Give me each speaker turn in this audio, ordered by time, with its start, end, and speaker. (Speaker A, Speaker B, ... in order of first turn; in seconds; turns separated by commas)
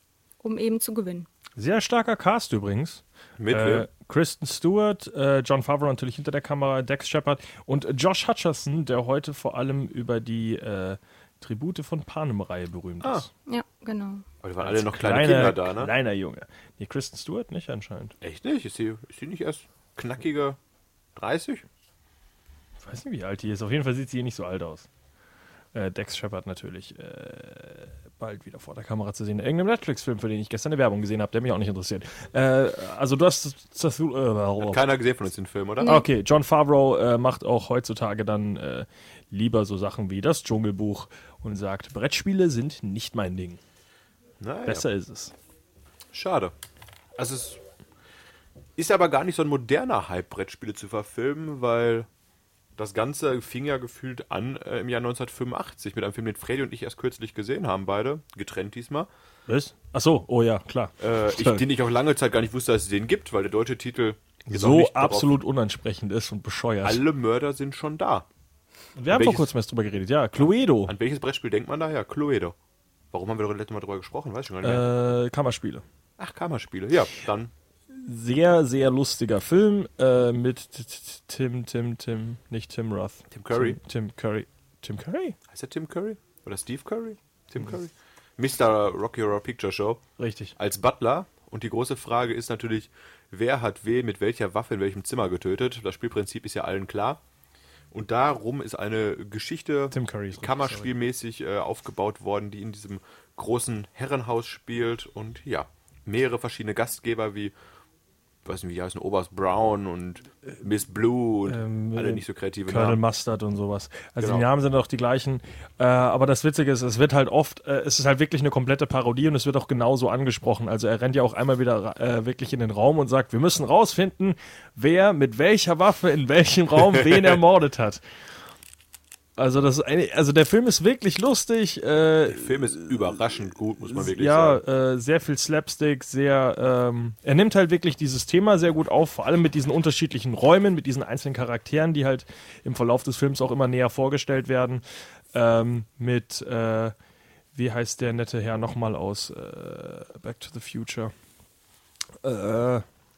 Speaker A: 0.4-1.3, Speaker B: 1.6-13.3, Speaker C: 3.4-3.9, Speaker A: 13.5-14.2, Speaker C: 14.4-15.9, Speaker B: 14.6-18.1, Speaker C: 18.2-20.6, Speaker C: 21.1-21.6, Speaker B: 22.8-24.9, Speaker B: 25.7-34.8, Speaker C: 34.6-36.0, Speaker A: 35.8-36.0, Speaker B: 35.8-43.6, Speaker C: 44.4-44.8, Speaker B: 44.6-45.3, Speaker C: 46.1-46.5, Speaker C: 47.1-47.6, Speaker C: 48.8-52.1, Speaker C: 52.8-59.1, Speaker B: 59.5-61.6, Speaker C: 61.0-65.4, Speaker B: 64.5-67.0, Speaker C: 66.8-68.2, Speaker B: 69.0-70.9, Speaker C: 69.1-69.5, Speaker C: 70.4-72.5, Speaker C: 73.1-74.9, Speaker B: 74.6-75.8, Speaker C: 76.2-77.5, Speaker B: 77.9-85.4, Speaker C: 83.3-83.8, Speaker C: 85.5-90.0, Speaker B: 90.2-90.5, Speaker C: 90.6-97.2, Speaker C: 97.9-107.5, Speaker B: 99.9-100.9, Speaker C: 108.4-113.0, Speaker B: 111.5-128.0, Speaker C: 114.2-114.5, Speaker B: 129.4-133.2, Speaker C: 132.3-134.6, Speaker B: 133.8-146.9, Speaker B: 147.5-151.1, Speaker B: 152.2-152.8